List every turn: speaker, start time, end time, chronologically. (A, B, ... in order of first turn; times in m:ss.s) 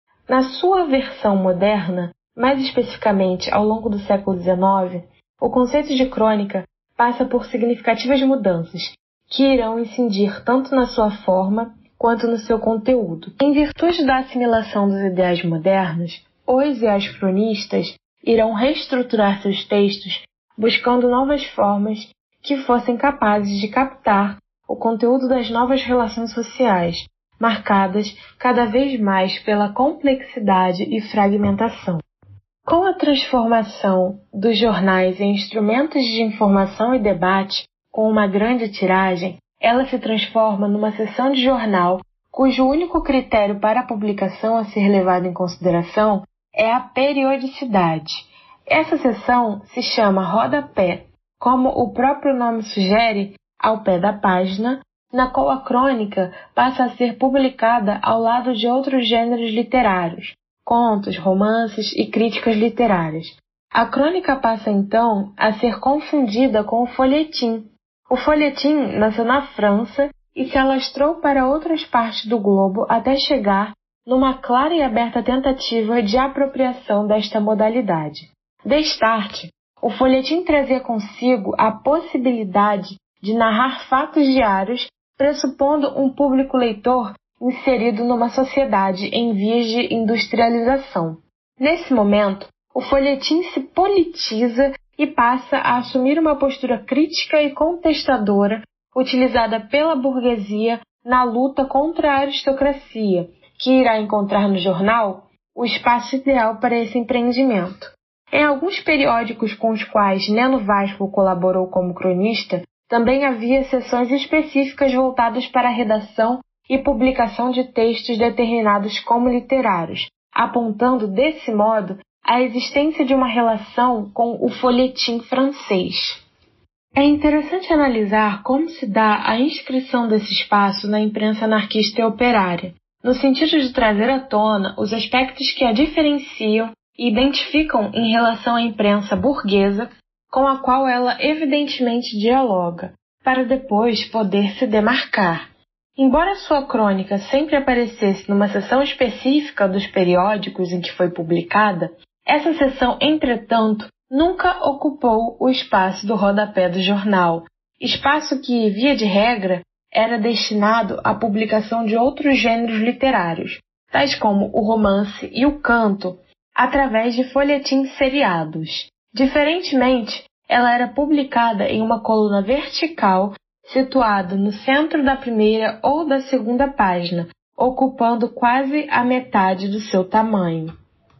0:00.3-0:32.0 A
0:32.6-2:06.2 A
2:06.9-2:25.4 A
2:26.0-3:00.7 A